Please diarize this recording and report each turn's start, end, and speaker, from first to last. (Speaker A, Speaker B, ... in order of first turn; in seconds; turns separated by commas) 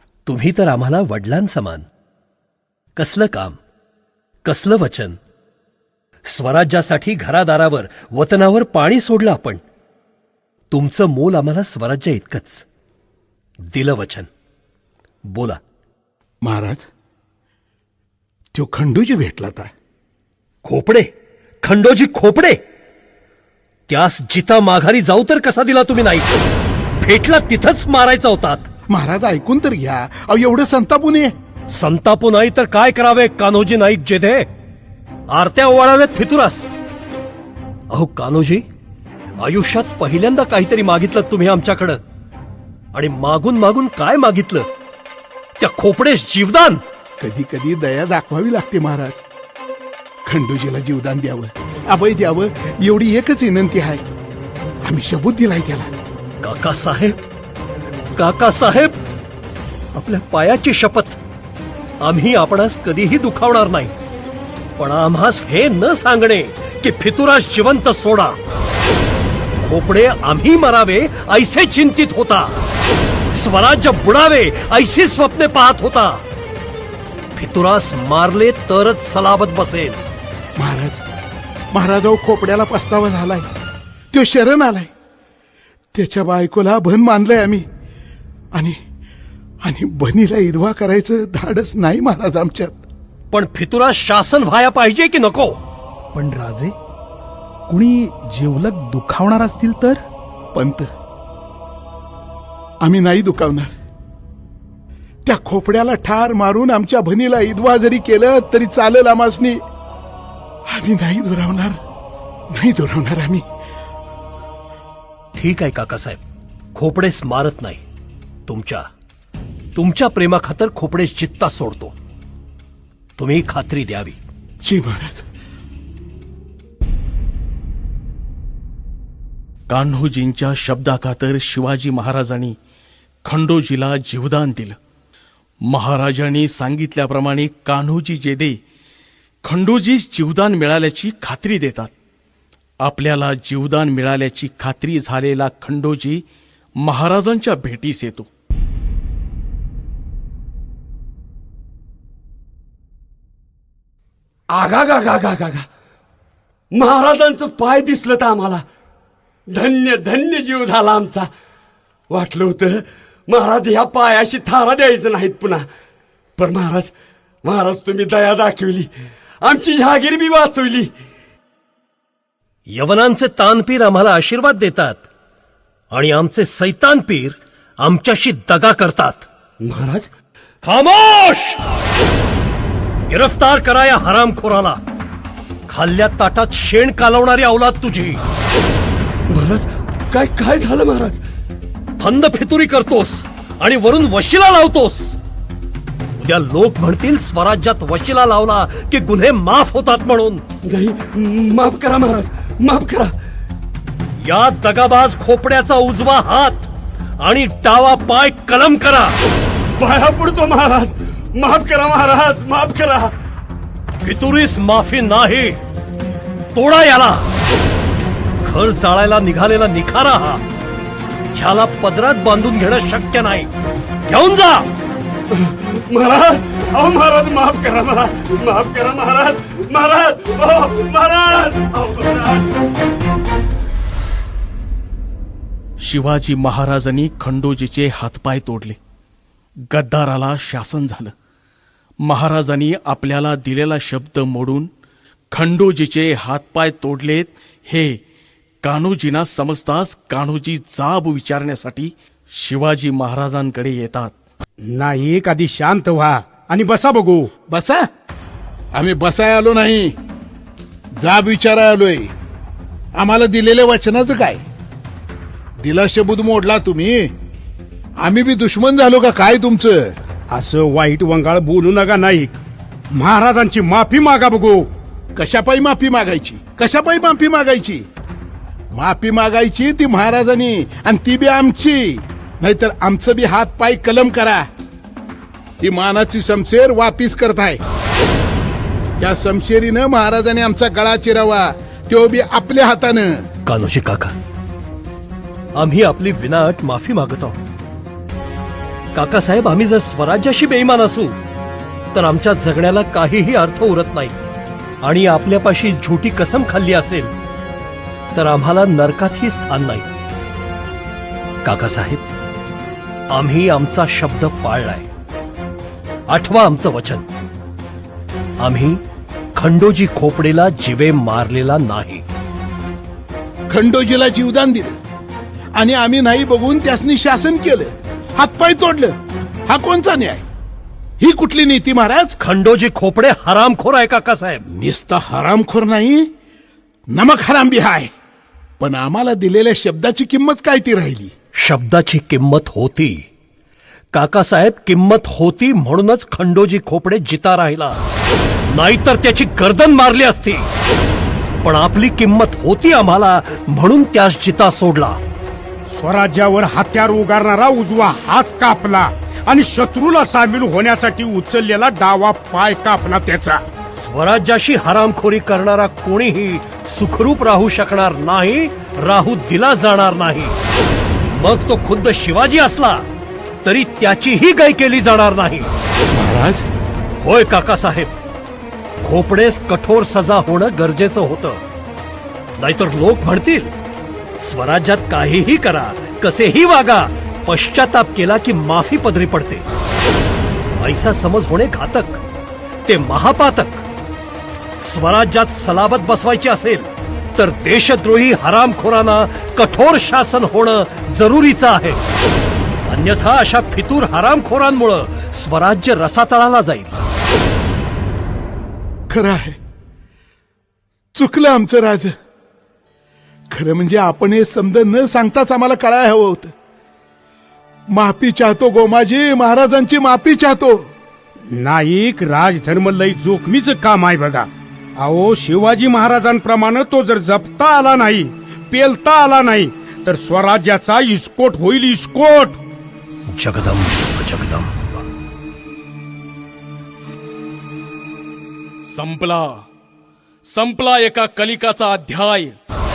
Speaker A: 0.2-1.8, Speaker A: 3.0-3.6, Speaker A: 4.4-5.2, Speaker A: 6.3-9.6, Speaker A: 10.7-12.6, Speaker A: 13.7-14.3, Speaker A: 15.2-15.6, Speaker B: 16.4-16.9, Speaker B: 18.5-19.7, Speaker A: 20.6-21.1, Speaker A: 21.6-22.6, Speaker A: 23.9-26.3, Speaker A: 27.0-28.7, Speaker B: 28.9-31.3, Speaker A: 31.7-34.5, Speaker A: 35.3-36.7, Speaker A: 37.9-38.6, Speaker A: 39.4-42.0, Speaker A: 42.9-44.7, Speaker A: 45.6-46.8, Speaker B: 47.2-49.2, Speaker B: 50.2-54.0, Speaker B: 54.8-55.9, Speaker A: 56.4-57.1, Speaker A: 58.1-58.9, Speaker A: 59.9-61.2, Speaker A: 62.0-63.9, Speaker A: 64.8-68.3, Speaker A: 69.6-72.5, Speaker A: 73.3-76.2, Speaker A: 77.3-80.0, Speaker B: 80.6-81.0, Speaker B: 81.7-83.5, Speaker B: 84.1-84.9, Speaker B: 85.9-87.7, Speaker B: 89.6-92.8, Speaker A: 93.3-95.6, Speaker C: 96.1-96.7, Speaker C: 97.7-100.0, Speaker B: 100.5-100.9, Speaker B: 102.8-103.7, Speaker B: 105.2-109.6, Speaker B: 110.7-111.8, Speaker B: 112.5-113.4, Speaker A: 115.3-116.2, Speaker A: 116.7-117.8, Speaker A: 118.5-118.9, Speaker A: 119.7-121.9, Speaker A: 123.2-124.2, Speaker B: 124.6-125.2, Speaker D: 129.7-132.6, Speaker D: 133.2-134.8, Speaker D: 135.7-138.6, Speaker D: 139.4-141.9, Speaker D: 142.8-146.2, Speaker D: 146.8-148.3, Speaker E: 154.5-155.7, Speaker E: 156.7-158.6, Speaker E: 159.5-161.3, Speaker E: 162.1-165.6, Speaker E: 166.4-166.9, Speaker E: 167.4-168.9, Speaker E: 169.4-170.9, Speaker A: 172.7-175.0, Speaker A: 175.9-179.2, Speaker E: 179.7-180.1, Speaker A: 180.6-181.6, Speaker A: 183.1-184.8, Speaker A: 185.7-188.2, Speaker E: 189.3-191.2, Speaker A: 192.0-195.2, Speaker A: 196.2-200.4, Speaker E: 200.7-203.1, Speaker A: 204.2-206.7, Speaker A: 207.2-209.2, Speaker E: 209.8-213.1, Speaker A: 214.0-215.6, Speaker A: 216.5-217.2, Speaker A: 218.4-220.4, Speaker A: 221.3-223.5, Speaker A: 224.1-224.7, Speaker E: 225.3-232.6, Speaker D: 235.8-238.8, Speaker D: 239.7-241.1, Speaker D: 242.1-244.7, Speaker D: 245.3-248.0, Speaker D: 248.6-254.1, Speaker F: 254.7-257.3, Speaker B: 257.5-257.9, Speaker B: 258.7-259.9, Speaker B: 261.0-262.1, Speaker B: 262.9-264.4, Speaker B: 265.6-267.1, Speaker B: 268.0-269.9, Speaker F: 270.3-272.4, Speaker F: 272.9-274.7, Speaker B: 275.1-277.8, Speaker B: 278.7-284.5, Speaker B: 285.6-287.6, Speaker B: 289.0-293.2, Speaker A: 293.4-294.1, Speaker A: 295.6-297.4, Speaker A: 298.9-301.1, Speaker A: 301.9-304.1, Speaker A: 304.8-307.1, Speaker A: 308.1-309.9, Speaker A: 311.4-312.0, Speaker A: 313.1-314.9, Speaker A: 316.1-317.0, Speaker A: 318.4-318.8, Speaker A: 319.3-322.0, Speaker B: 323.5-324.7, Speaker B: 325.5-328.9, Speaker B: 329.5-330.2, Speaker B: 331.0-332.1, Speaker A: 332.2-334.4, Speaker B: 334.5-336.1, Speaker B: 336.9-337.9, Speaker B: 338.6-341.1, Speaker A: 341.4-343.0, Speaker A: 343.9-347.8, Speaker A: 348.5-350.4, Speaker A: 351.4-355.0, Speaker F: 355.7-363.4, Speaker A: 363.8-370.3, Speaker A: 371.1-372.8, Speaker A: 373.4-375.5, Speaker B: 375.9-376.5, Speaker A: 377.0-377.9, Speaker A: 378.8-381.4, Speaker A: 382.4-383.5, Speaker A: 384.2-389.4, Speaker A: 390.6-392.0, Speaker A: 392.6-393.6, Speaker A: 394.6-401.8, Speaker A: 402.7-406.8, Speaker B: 408.9-409.4, Speaker B: 410.9-411.9, Speaker B: 413.3-416.3, Speaker B: 417.7-420.7, Speaker F: 421.4-424.3, Speaker F: 424.8-432.4, Speaker A: 433.1-434.9, Speaker D: 438.7-439.4, Speaker D: 440.3-442.4